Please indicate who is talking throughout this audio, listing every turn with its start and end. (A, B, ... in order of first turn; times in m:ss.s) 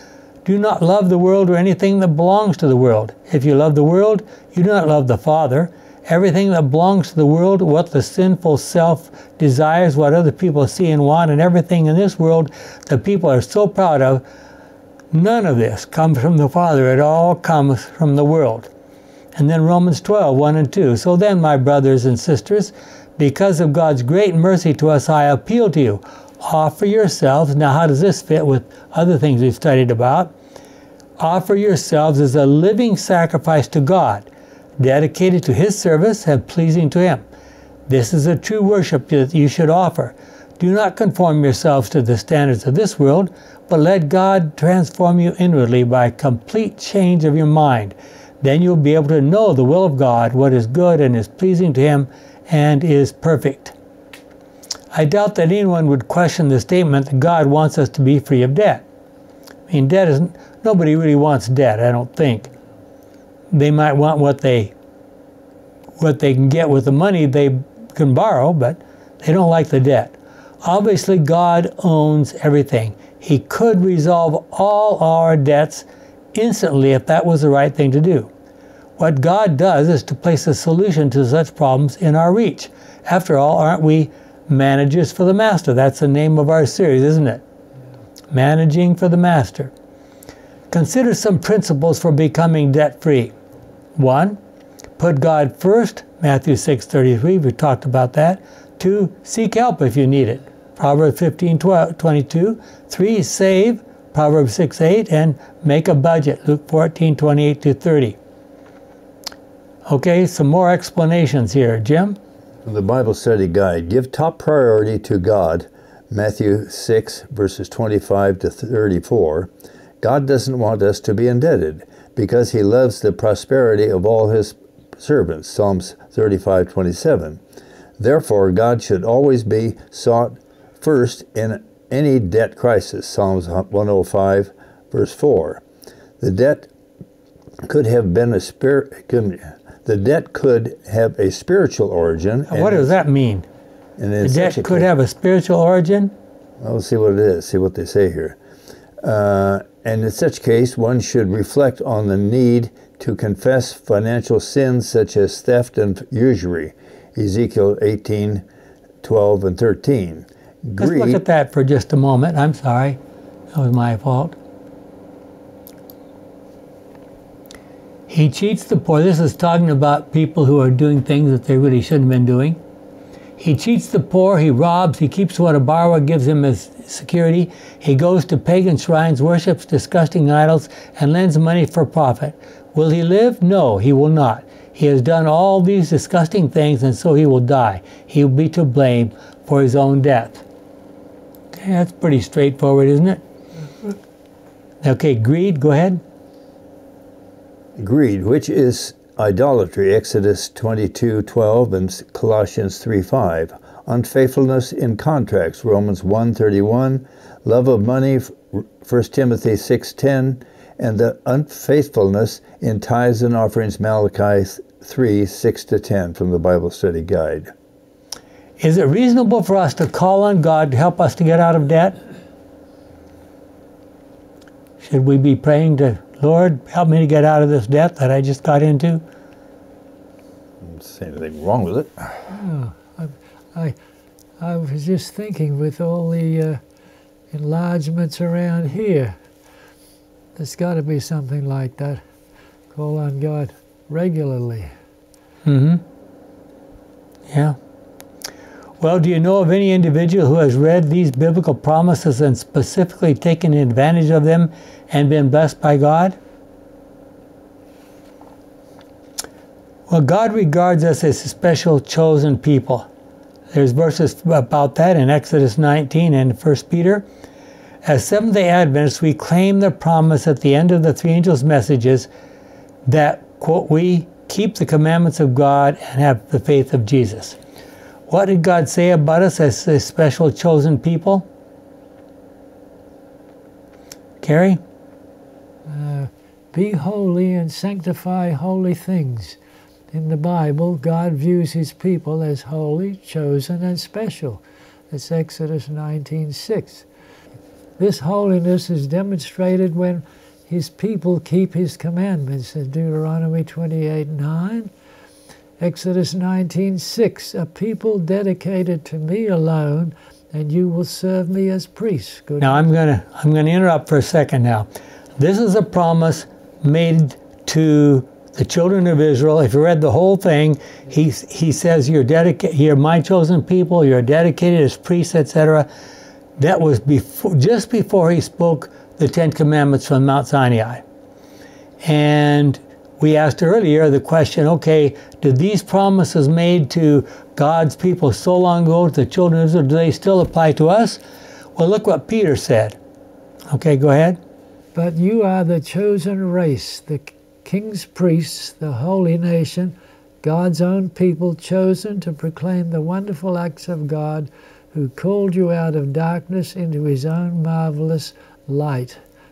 0:00.4-0:14.2 A
0:15.1-0:18.7 A
0:19.4-0:30.3 A
0:31.2-0:34.3 A
0:34.8-0:37.2 A
0:37.9-0:53.8 A
0:54.9-0:58.8 A
0:59.7-1:02.5 A
1:03.5-1:04.7 A
1:06.0-1:18.3 A
1:19.0-1:27.4 A
1:28.3-1:29.7 A
1:30.7-1:33.3 A
1:34.0-1:34.4 A
1:35.0-1:48.2 A
1:49.9-1:52.2 A
1:52.6-2:07.4 B
2:08.0-2:15.6 B
2:16.2-2:16.7 B
2:17.6-2:22.9 B
2:22.5-2:23.4 A
2:24.0-2:24.9 B
2:24.2-2:26.1 A
2:26.6-2:28.4 B
2:29.0-2:38.4 B
2:39.0-2:41.2 B
2:40.8-2:43.0 A
2:43.5-2:44.4 A
2:48.1-2:52.6 A
2:53.4-3:10.4 A
3:11.5-3:13.2 A
3:14.8-3:16.0 A
3:17.8-3:37.5 B
3:38.6-3:42.0 A
3:44.8-3:49.0 A
3:50.6-3:52.2 B
3:52.3-3:53.8 C
3:54.4-3:56.6 C
3:57.3-3:59.2 C
4:00.4-4:02.0 C
4:02.7-4:04.7 C
4:05.4-4:05.8 A
4:07.3-4:07.6 A
4:08.8-4:16.2 A
4:19.9-4:22.9 A
4:23.5-4:27.0 A
4:27.8-4:32.1 A
4:32.9-4:37.4 A
4:38.1-4:41.3 A
4:44.2-4:44.6 A
4:45.7-4:49.4 C
4:49.9-4:56.9 C
4:57.8-5:04.7 C
5:05.6-5:12.7 C
5:12.4-5:25.7 A
5:26.4-5:30.8 A
5:31.8-5:41.0 A
5:41.6-5:42.8 A
5:43.5-5:44.2 A
5:44.8-5:59.0 C